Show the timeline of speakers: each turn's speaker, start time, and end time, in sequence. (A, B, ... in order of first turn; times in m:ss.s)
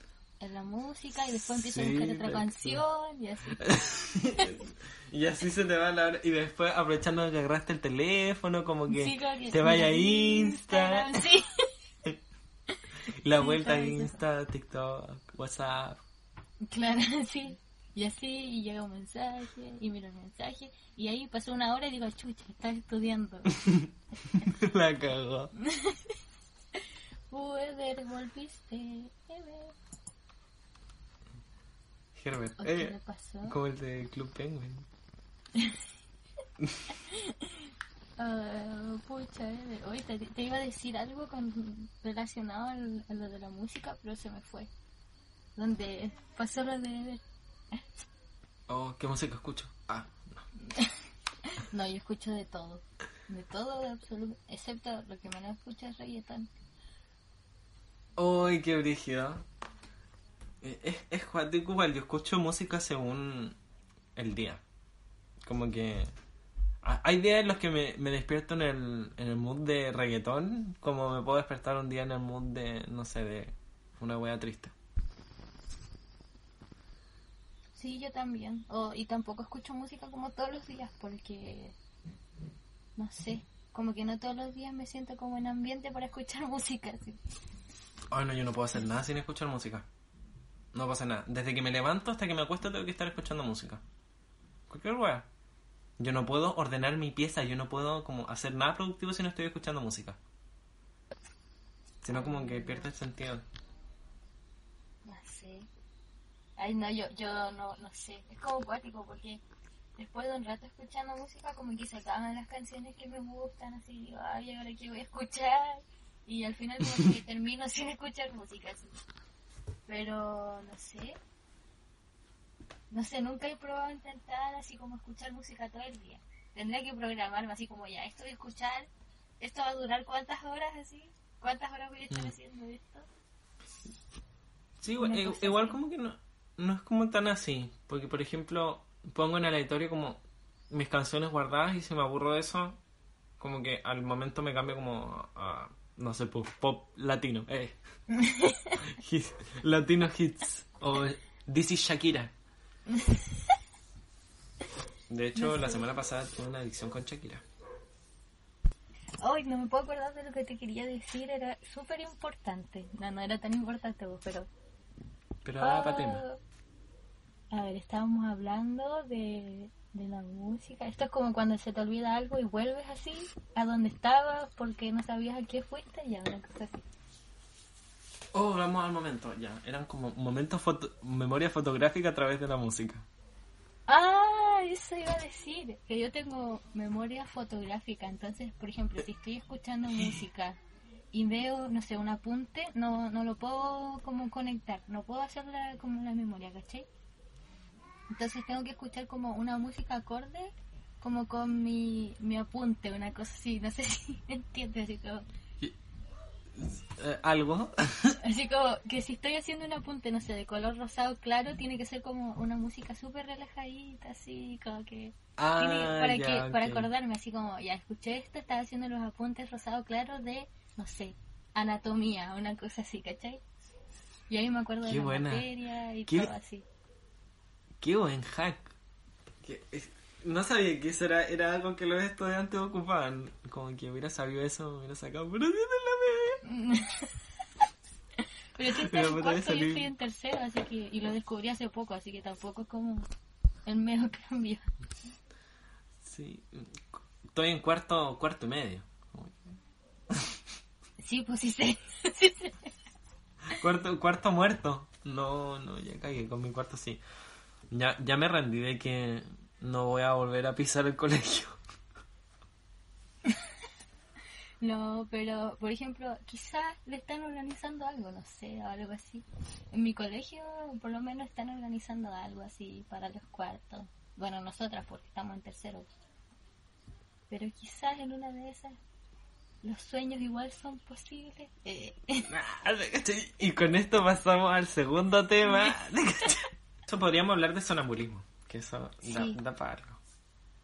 0:00.4-0:03.7 A
0:01.5-0:02.8 B
0:03.6-0:11.2 B
0:08.9-0:11.7 A
0:13.2-0:16.0 B
0:13.4-0:14.2 A
0:16.6-0:23.5 A
0:23.5-0:23.9 B
0:24.4-0:25.5 B
0:25.6-0:26.1 A
0:27.3-0:29.8 A
0:32.2-0:34.9 B
0:32.6-0:33.6 A
0:37.0-0:37.7 A
0:38.2-0:44.7 A
0:45.6-0:47.2 A
0:48.7-0:50.4 B
0:50.6-0:56.5 A
0:58.2-0:59.4 B
1:00.6-1:03.6 B
1:04.2-1:04.6 B
1:05.4-1:06.1 B
1:06.8-1:14.7 B
1:17.8-1:21.8 A
1:23.0-1:27.2 A
1:28.1-1:29.9 B
1:30.7-1:33.8 B
1:34.7-1:35.3 B
1:36.0-1:40.2 B
1:42.0-1:43.5 B
1:42.1-1:42.9 A
1:45.0-1:45.7 A
1:46.6-1:49.4 A
1:50.0-1:58.9 A
1:59.9-2:01.2 A
2:02.9-2:13.1 A
2:14.8-2:22.8 B
2:15.0-2:15.8 A
2:23.4-2:27.8 B
2:28.1-2:28.8 A
2:28.8-2:32.3 B
2:32.9-2:33.5 A
2:35.1-2:37.4 B
2:35.4-2:35.8 A
2:39.2-2:44.5 A
2:45.4-2:46.2 B
2:45.6-2:46.4 A
2:47.5-2:56.8 A
2:58.3-3:03.1 B
3:03.9-3:10.6 A
3:11.1-3:16.9 A
3:18.1-3:25.2 A
3:26.6-3:28.2 B
3:28.2-3:43.4 A
3:35.4-3:36.9 B
3:44.3-3:46.6 A
3:44.8-3:45.5 B
3:47.8-3:48.7 B
3:49.4-3:56.4 B
3:56.4-3:57.1 A
3:58.6-4:03.1 A
3:58.7-3:59.9 B
4:03.6-4:04.7 A
4:06.0-4:09.5 B
4:11.0-4:12.7 A
4:13.5-4:17.0 B
4:17.7-4:21.6 B
4:24.6-4:35.9 A
4:37.3-4:38.8 A
4:39.6-4:42.3 A
4:42.3-4:50.0 B
4:45.5-4:45.8 A
4:49.1-4:49.4 A